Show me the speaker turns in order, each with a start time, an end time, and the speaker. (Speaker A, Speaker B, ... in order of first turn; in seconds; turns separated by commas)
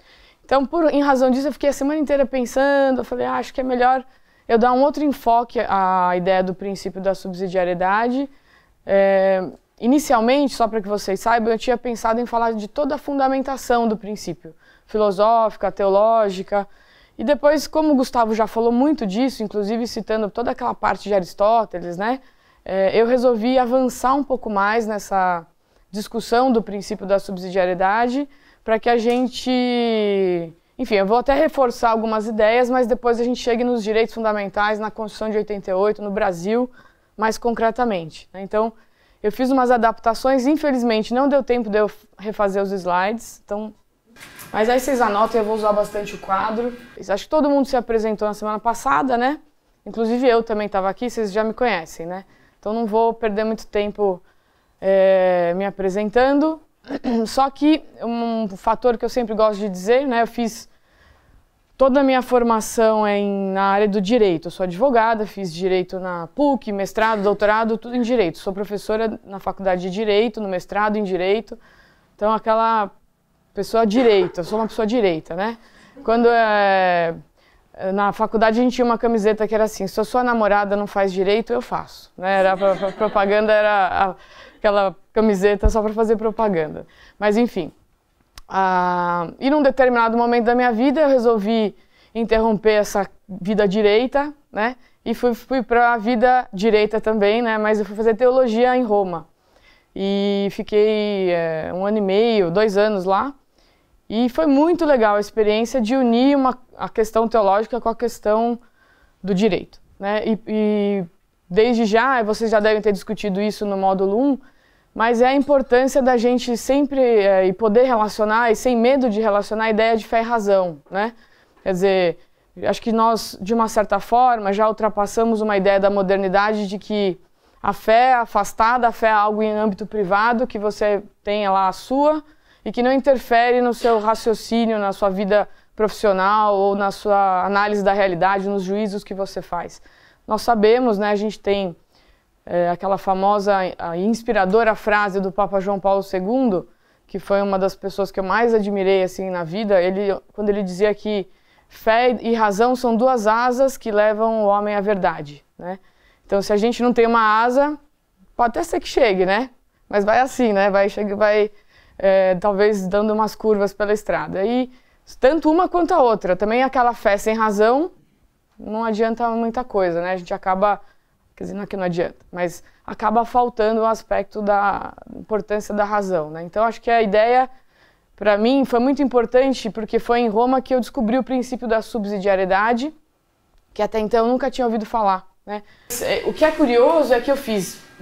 Speaker A: 0.4-8.3, Speaker A: 8.8-16.7, Speaker A: 17.2-43.7, Speaker A: 44.5-54.2, Speaker A: 54.8-60.7, Speaker A: 61.8-71.6, Speaker A: 72.2-72.9, Speaker A: 73.5-77.2, Speaker A: 77.8-87.7, Speaker A: 88.5-99.3, Speaker A: 99.9-103.3, Speaker A: 104.1-108.6, Speaker A: 109.2-114.4, Speaker A: 114.9-121.1, Speaker A: 121.6-141.8, Speaker A: 142.4-157.8, Speaker A: 158.4-167.9, Speaker A: 168.6-170.8, Speaker A: 171.3-177.5, Speaker A: 178.2-182.9, Speaker A: 183.7-187.8